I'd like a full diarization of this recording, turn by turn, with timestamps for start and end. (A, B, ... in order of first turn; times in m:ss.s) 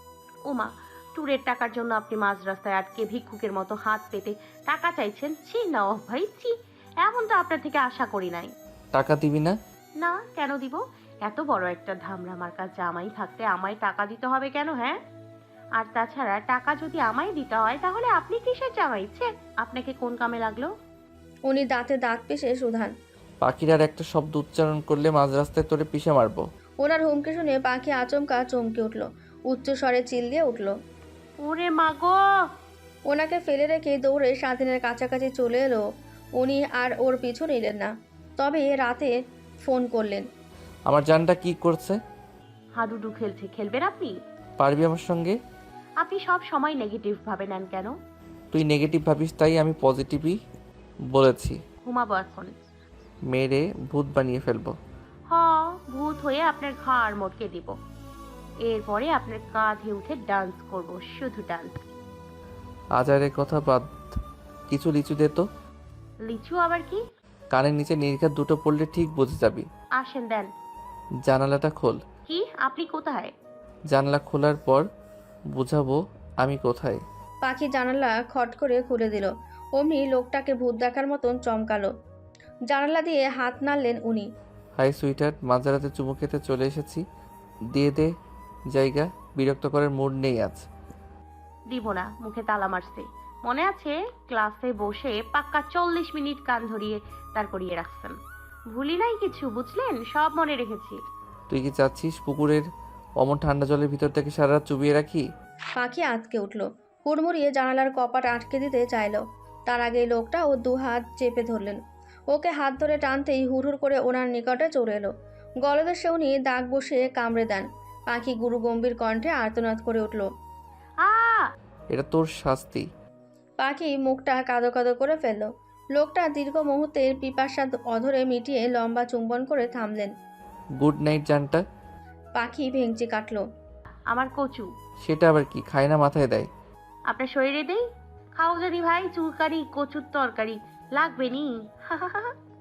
0:00.5-0:08.5 A
0:08.9-0:09.6 B
0:10.0-0:15.0 A
0:15.8-0:20.7 A
0:21.5-0:22.9 C
0:23.4-0:26.4 B
0:26.8-0:30.7 C
0:31.4-0:32.2 A
0:33.1-0:35.8 C
0:36.4-0:39.1 C
0:39.6-0:40.2 C
0:40.9-0:42.0 B
0:42.8-0:44.2 A
0:44.6-0:45.4 B
0:46.0-0:47.9 A
0:48.5-0:50.4 B
0:51.1-0:51.6 B
0:51.8-0:52.5 A
0:53.3-0:54.8 B
0:55.3-0:57.8 A
0:58.6-1:01.7 A
1:03.0-1:03.9 B
1:04.7-1:05.5 B
1:06.2-1:07.0 A
1:07.5-1:09.7 B
1:10.0-1:10.5 A
1:11.3-1:12.0 B
1:12.3-1:13.3 A
1:13.9-1:14.8 B
1:15.5-1:17.0 B
1:17.4-1:21.9 C
1:22.7-1:24.3 C
1:24.8-1:27.0 B
1:27.8-1:28.1 B
1:28.7-1:30.6 B
1:31.7-1:38.2 A
1:38.7-1:41.0 A
1:41.5-1:42.6 B
1:43.2-1:45.2 B
1:45.8-1:51.8 C
1:52.3-1:55.1 C
1:55.6-2:00.3 C
2:01.0-2:01.4 A
2:01.9-2:02.9 B
2:03.6-2:10.1 C
2:10.8-2:11.6 B
2:12.4-2:13.4 C
2:14.1-2:14.7 A
2:15.0-2:16.5 B
2:17.1-2:17.8 A
2:18.4-2:22.3 A